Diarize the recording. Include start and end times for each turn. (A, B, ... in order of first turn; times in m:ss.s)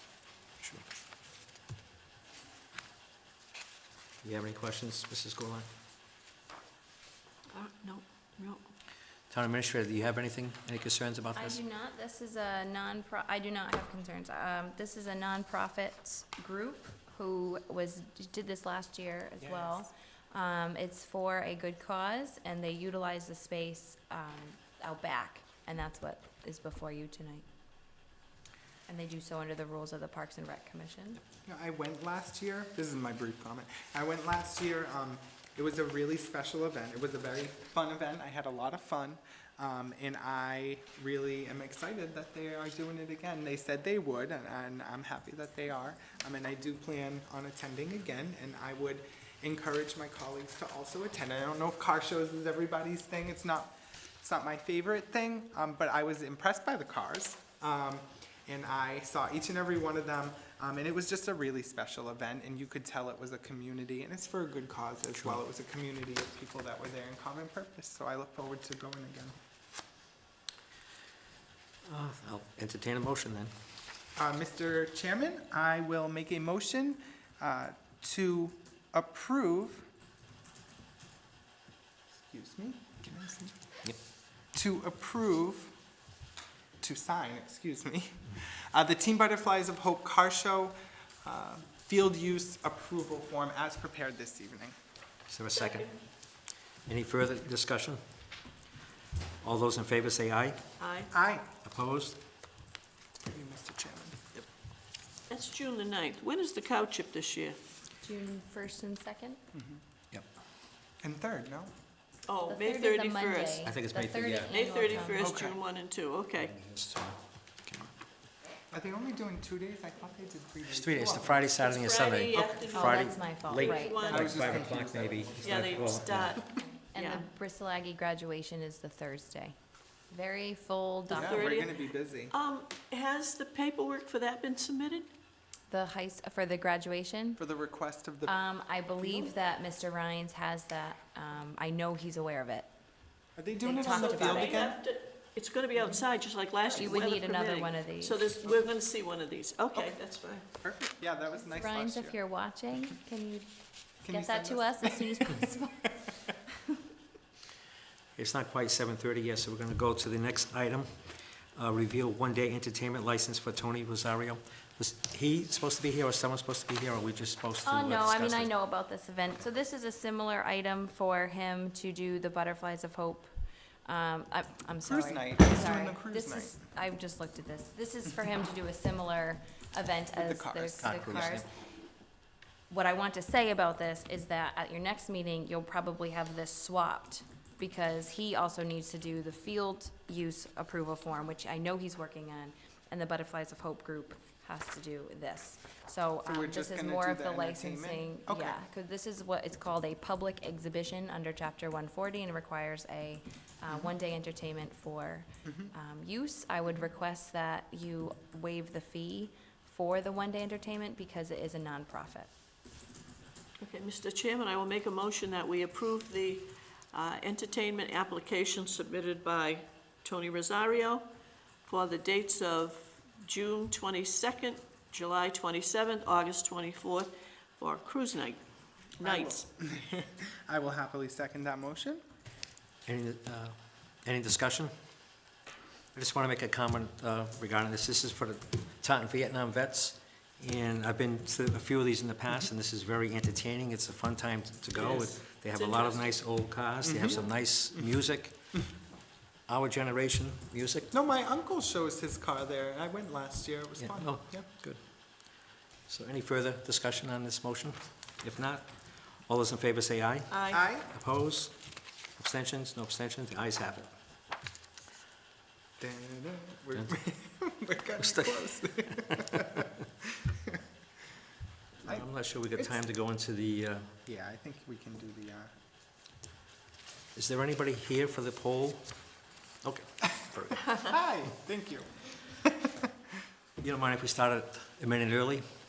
0:04.2-0:05.7 A
0:07.5-0:08.6 B
0:09.3-0:11.6 A
0:11.3-0:27.4 C
0:19.4-0:19.9 D
0:28.9-0:31.2 C
0:31.4-1:09.4 D
1:11.9-1:13.5 A
1:14.2-1:19.9 D
1:22.2-1:23.6 D
1:24.5-1:25.8 D
1:26.8-1:34.8 D
1:35.3-1:35.9 A
1:35.5-1:36.0 B
1:36.9-1:38.0 A
1:39.4-1:40.6 A
1:40.8-1:41.1 B
1:41.1-1:41.5 D
1:41.6-1:42.2 A
1:43.2-1:44.2 D
1:45.3-1:47.6 B
1:48.0-1:49.4 C
1:49.5-1:49.8 D
1:51.0-1:51.7 D
1:52.3-1:53.7 B
1:52.5-1:55.4 C
1:53.6-1:54.6 A
1:54.5-1:56.5 B
1:55.2-1:55.6 D
1:56.4-1:57.2 A
1:58.7-2:01.5 D
2:00.7-2:06.4 A
2:01.6-2:04.5 B
2:02.3-2:02.7 D
2:02.6-2:04.4 C
2:04.0-2:06.1 D
2:05.4-2:07.3 B
2:06.6-2:09.5 C
2:10.1-2:11.7 C
2:11.1-2:11.8 B
2:11.1-2:12.3 D
2:12.3-2:15.1 B
2:15.7-2:17.4 C
2:17.4-2:18.4 D
2:18.2-2:22.7 C
2:23.4-2:24.8 D
2:23.6-2:24.7 C
2:23.8-2:30.4 B
2:26.7-2:28.2 C
2:30.5-2:32.2 D
2:31.4-2:33.5 C
2:34.0-2:36.0 C
2:34.0-2:35.5 D
2:38.2-2:48.5 A
2:47.7-2:53.3 C
2:53.8-3:01.5 C
2:54.8-2:56.5 D
3:00.1-3:01.4 D
3:00.8-3:01.5 A
3:02.7-3:32.3 C
3:16.2-3:18.6 D
3:25.4-3:25.7 D
3:33.6-3:41.0 B
3:41.7-3:48.4 B
3:49.0-3:49.5 B
3:49.0-3:52.0 D
3:52.8-3:54.7 A
3:55.9-4:08.5 A
4:04.7-4:06.1 B
4:06.8-4:07.2 D
4:09.5-4:10.9 A
4:10.9-4:14.5 D
4:13.8-4:14.8 A
4:15.9-4:21.5 A
4:20.3-4:20.6 B
4:20.5-4:20.9 D
4:22.2-4:23.9 A
4:25.8-4:29.7 D
4:28.0-4:29.3 A
4:31.8-4:33.9 A
4:31.8-4:32.8 D
4:34.1-4:35.5 D
4:37.2-4:39.1 A
4:39.6-4:40.8 A
4:40.6-4:42.7 D
4:43.6-4:45.5 A